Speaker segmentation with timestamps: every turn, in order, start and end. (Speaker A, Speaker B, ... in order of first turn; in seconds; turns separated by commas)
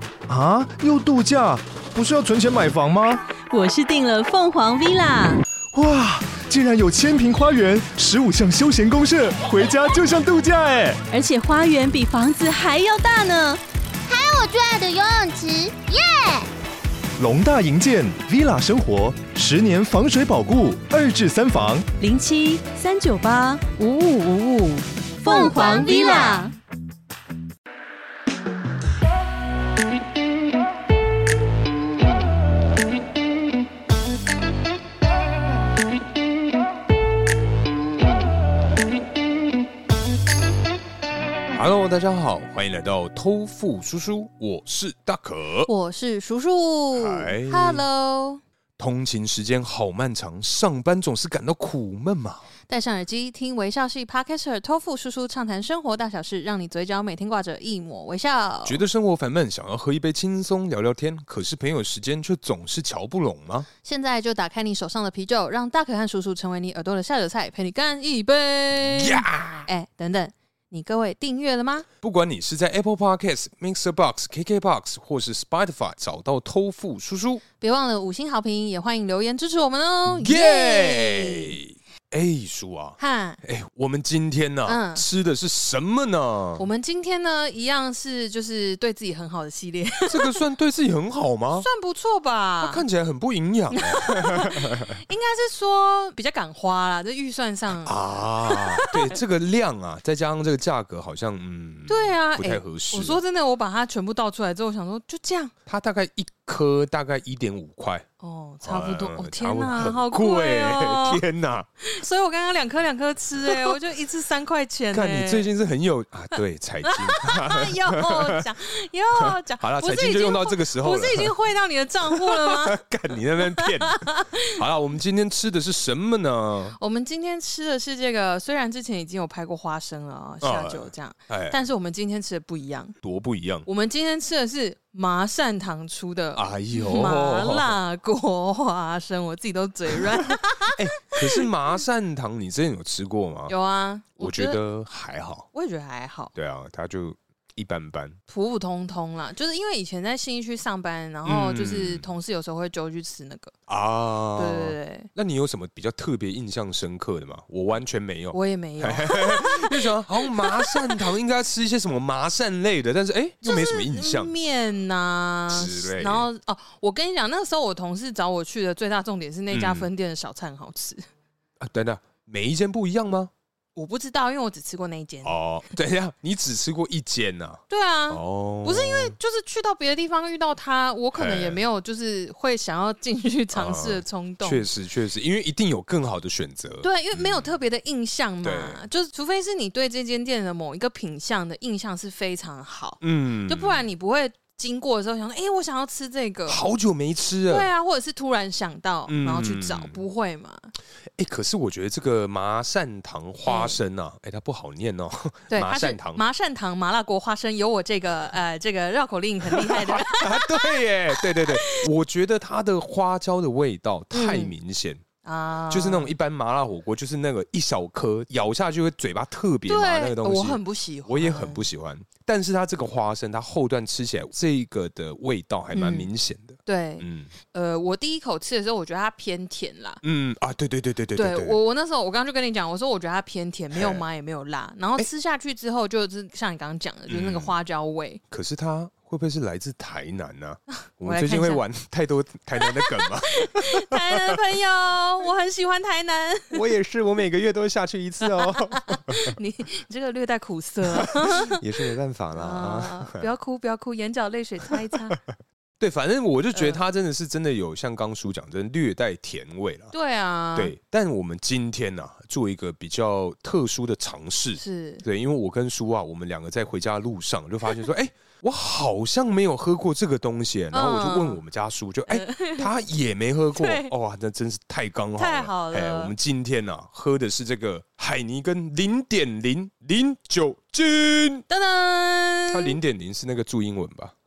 Speaker A: 0.3-3.2, Speaker B: 3.5-5.4, Speaker A: 5.7-11.0, Speaker B: 11.1-13.6, Speaker C: 14.1-16.5, Speaker A: 17.2-21.9, Speaker B: 22.0-26.5, Speaker C: 25.3-26.4, Speaker D: 25.3-26.4, Speaker E: 41.5-45.7, Speaker D: 45.7-48.4, Speaker E: 46.9-47.8, Speaker E: 48.8-52.5, Speaker D: 52.7-58.8, Speaker E: 58.6-63.7, Speaker D: 63.8-71.8, Speaker E: 68.8-69.7, Speaker E: 72.0-77.4, Speaker D: 77.6-81.6, Speaker E: 80.2-86.7, Speaker D: 83.0-83.4, Speaker D: 84.7-85.0, Speaker D: 86.6-90.4, Speaker E: 90.1-91.7, Speaker D: 91.5-92.8, Speaker E: 92.6-94.9, Speaker D: 93.7-99.2, Speaker E: 97.8-103.2, Speaker D: 101.9-105.5, Speaker E: 105.7-108.0, Speaker D: 108.2-111.2, Speaker E: 108.6-111.7, Speaker D: 111.8-115.5, Speaker E: 113.4-113.8, Speaker E: 114.9-118.4, Speaker D: 116.8-122.8, Speaker E: 119.2-121.3, Speaker E: 122.0-126.8, Speaker D: 123.6-124.6, Speaker D: 126.8-132.9, Speaker E: 130.4-131.6, Speaker E: 133.0-133.7, Speaker D: 133.7-141.4, Speaker E: 136.3-137.7, Speaker E: 140.7-143.5, Speaker D: 143.5-144.6, Speaker E: 144.2-145.4, Speaker D: 145.5-146.3, Speaker E: 146.3-148.1, Speaker D: 148.3-153.5, Speaker E: 151.2-152.0, Speaker E: 153.7-164.3, Speaker D: 154.3-155.1, Speaker D: 158.3-161.0, Speaker D: 163.4-171.0, Speaker E: 165.5-166.3, Speaker E: 169.5-169.9, Speaker E: 171.6-173.3, Speaker D: 173.8-175.3, Speaker E: 175.2-179.1, Speaker D: 177.7-184.7, Speaker E: 181.1-181.6, Speaker E: 183.5-187.4, Speaker D: 186.8-196.6, Speaker E: 188.4-188.8, Speaker E: 193.0-193.8, Speaker E: 196.5-197.7, Speaker D: 197.5-200.7, Speaker E: 199.1-200.0, Speaker E: 201.2-206.2, Speaker D: 203.4-203.8, Speaker D: 205.5-211.8, Speaker E: 209.4-215.0, Speaker D: 214.1-214.5, Speaker D: 215.2-216.1, Speaker E: 215.7-227.3, Speaker D: 219.7-221.7, Speaker D: 225.7-226.1, Speaker D: 226.6-230.0, Speaker E: 230.0-231.6, Speaker D: 231.1-238.2, Speaker E: 233.7-234.0, Speaker E: 237.1-237.5, Speaker E: 238.3-244.3, Speaker D: 241.0-241.6, Speaker D: 242.6-246.6, Speaker E: 246.5-249.3, Speaker D: 248.3-251.6, Speaker E: 250.9-253.2, Speaker D: 252.3-255.2, Speaker E: 255.8-259.9, Speaker D: 256.5-256.8, Speaker D: 259.9-260.7, Speaker E: 260.6-281.4, Speaker D: 264.6-265.0, Speaker D: 270.7-271.4, Speaker D: 272.1-272.6, Speaker D: 273.5-273.9, Speaker D: 275.2-276.1, Speaker D: 281.5-282.8, Speaker E: 282.5-284.1